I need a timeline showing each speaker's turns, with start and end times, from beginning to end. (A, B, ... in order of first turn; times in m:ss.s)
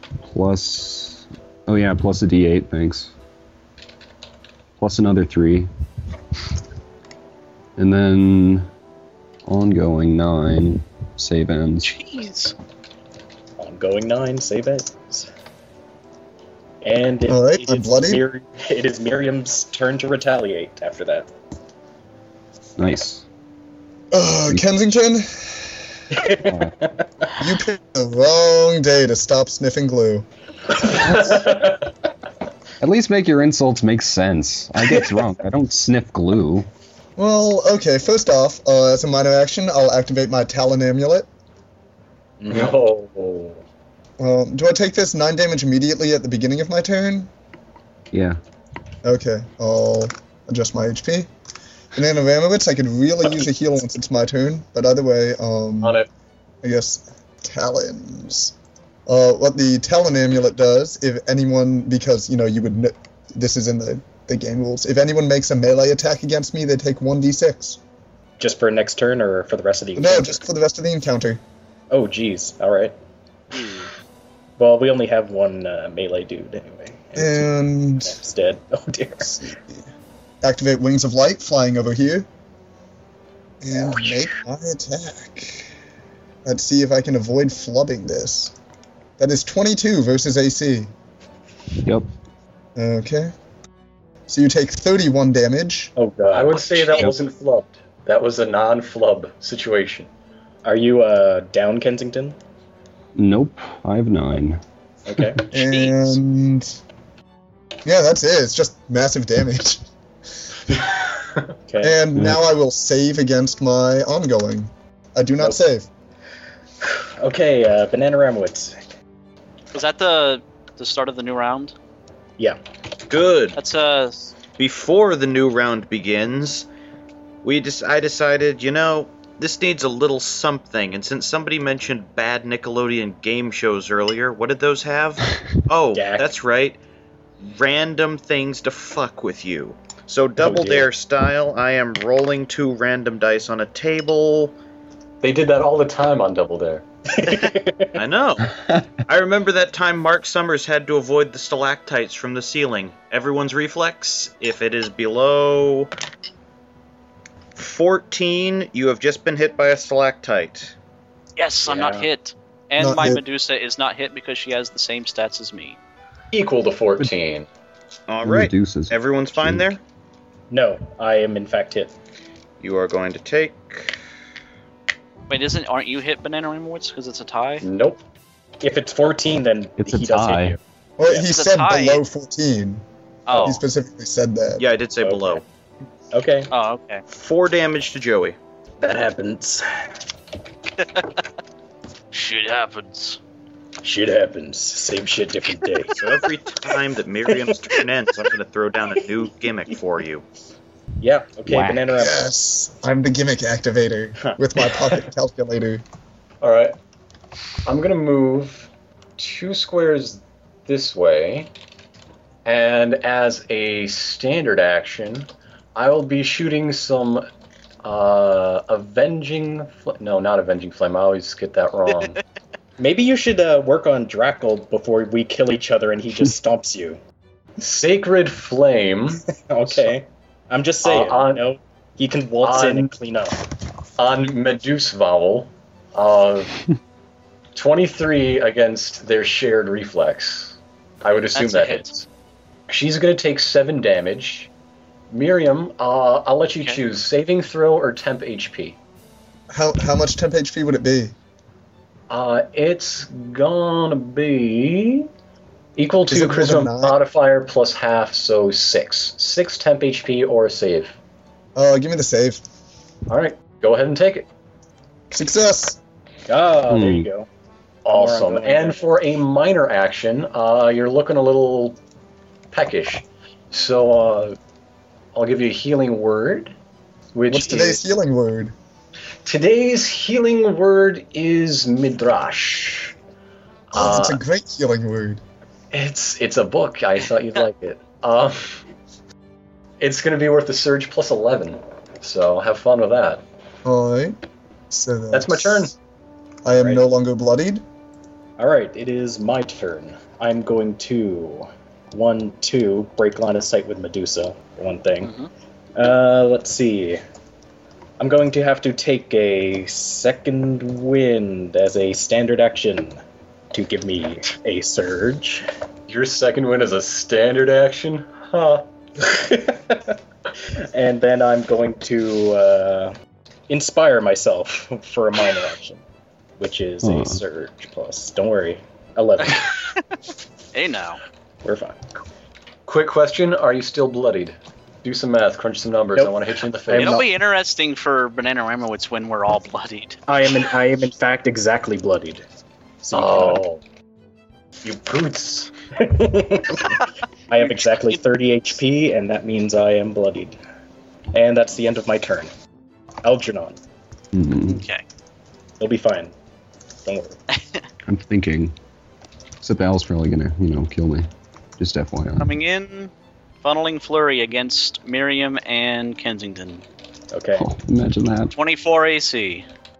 0:00.2-0:03.1 A
0:04.8-0:05.7 A
0:07.8-0:08.7 A
0:09.4-0:11.9 A
0:11.8-0:12.5 B
0:13.6-0:15.3 C
0:16.8-0:21.3 C
0:17.3-0:18.2 D
0:22.8-0:23.2 A
0:24.1-0:25.8 D
0:24.5-0:24.7 A
0:26.1-0:27.4 C
0:26.4-0:26.7 A
0:27.4-0:30.3 D
0:31.0-0:31.7 C
0:31.1-0:31.4 A
0:32.8-0:36.7 A
0:37.2-0:41.3 D
0:42.4-0:42.8 C
0:42.5-0:43.6 E
0:44.2-0:47.3 D
0:48.1-0:48.4 A
0:49.0-0:51.3 D
0:51.9-0:56.0 D
0:55.8-0:56.1 E
0:56.6-0:58.5 D
0:59.1-1:07.8 D
1:08.4-1:10.5 C
1:09.9-1:11.4 D
1:11.9-1:13.0 C
1:13.5-1:13.9 B
1:14.6-1:19.4 C
1:17.2-1:18.2 D
1:19.2-1:19.8 D
1:20.4-1:22.3 D
1:23.6-1:25.7 D
1:26.4-1:28.5 D
1:29.2-1:30.9 D
1:32.8-1:33.3 D
1:34.3-1:35.9 D
1:36.0-1:37.1 C
1:36.3-1:40.1 E
1:40.6-1:42.4 C
1:43.2-1:44.6 A
1:45.1-1:45.4 C
1:45.5-1:46.8 D
1:45.5-1:46.2 B
1:47.8-1:49.8 D
1:51.7-1:52.0 C
1:51.8-1:55.9 D
1:52.2-1:52.4 A
1:56.8-1:58.8 C
1:59.7-2:01.7 B
2:03.1-2:03.6 F
2:03.5-2:04.3 B
2:04.6-2:06.7 F
2:07.4-2:16.8 F
2:15.9-2:16.3 C
2:17.4-2:24.5 F
2:20.4-2:20.9 C
2:25.2-2:26.8 E
2:27.1-2:28.0 C
2:27.9-2:28.5 F
2:29.0-2:35.9 F
2:37.6-2:40.7 F
2:41.4-2:45.8 B
2:41.6-2:42.1 C
2:42.8-2:43.2 D
2:46.3-2:47.5 E
2:48.1-2:49.8 F
2:48.2-2:49.7 A
2:50.5-2:51.9 C
2:52.6-2:54.0 F
2:55.3-2:57.6 B
2:57.6-2:58.0 E
2:58.6-3:00.6 C
2:59.8-3:00.6 A
3:01.0-3:04.7 D
3:01.2-3:02.0 B
3:03.3-3:03.6 B
3:04.6-3:05.4 F
3:05.0-3:05.4 C
3:06.1-3:06.5 C
3:06.5-3:07.0 B
3:07.1-3:08.4 F
3:08.8-3:09.6 C
3:12.1-3:13.2 B
3:13.8-3:17.8 C
3:15.9-3:20.2 F
3:21.0-3:22.3 C
3:21.5-3:22.0 A
3:22.0-3:25.8 D
3:26.4-3:26.8 E
3:27.6-3:31.5 E
3:32.4-3:37.2 E
3:37.8-3:42.2 E
3:42.8-3:47.0 C
3:47.6-3:49.9 E
3:49.3-3:53.4 C
3:50.8-3:51.4 E
3:52.4-3:52.9 E
3:54.0-3:56.6 E
3:57.5-4:02.0 E
4:01.3-4:02.0 B
4:02.7-4:04.5 E
4:05.1-4:08.8 E
4:09.5-4:11.1 D
4:12.1-4:15.1 E
4:15.8-4:21.0 E
4:16.1-4:17.0 D
4:21.5-4:22.4 D
4:23.1-4:24.3 E
4:25.1-4:25.8 D
4:26.3-4:27.3 C
4:26.7-4:27.1 A
4:27.8-4:31.8 E
4:27.9-4:28.9 C
4:32.5-4:34.4 E
4:35.1-4:36.5 E
4:37.1-4:37.8 E
4:37.3-4:38.5 D
4:39.2-4:42.9 E
4:43.7-4:44.2 E
4:43.7-4:45.2 D
4:45.7-4:48.6 E
4:49.8-4:53.2 E
4:53.6-4:54.2 D
4:54.7-4:55.7 D
4:55.1-4:55.7 E
4:56.4-4:57.6 D
4:56.6-4:56.8 C
4:58.4-5:05.1 C
5:05.0-5:05.3 B
5:05.8-5:07.0 C
5:08.0-5:13.0 C
5:13.5-5:15.5 C
5:15.9-5:18.6 E
5:19.0-5:22.9 C
5:23.5-5:25.8 C
5:26.4-5:29.5 C
5:26.8-5:27.2 A
5:29.2-5:29.8 B
5:30.5-5:31.0 B
5:31.4-5:31.8 C
5:32.6-5:37.0 E
5:35.9-5:37.1 C
5:36.7-5:40.0 B
5:40.1-5:42.2 C
5:42.8-5:43.4 C
5:42.9-5:43.6 E
5:44.6-5:45.5 E
5:45.8-5:46.8 C
5:47.3-5:50.4 C
5:47.5-5:48.0 B
5:51.1-5:52.3 C
5:53.0-5:53.6 C
5:54.1-5:54.6 A
5:54.4-5:54.8 B
5:55.6-5:56.1 C
5:56.8-5:57.2 C
5:57.4-5:57.6 B
5:57.8-5:58.5 A
5:59.4-6:01.1 A
6:01.6-6:02.3 A
6:02.2-6:02.9 B
6:03.4-6:06.6 B
6:07.1-6:07.4 C
6:07.4-6:08.3 A
6:08.3-6:09.4 B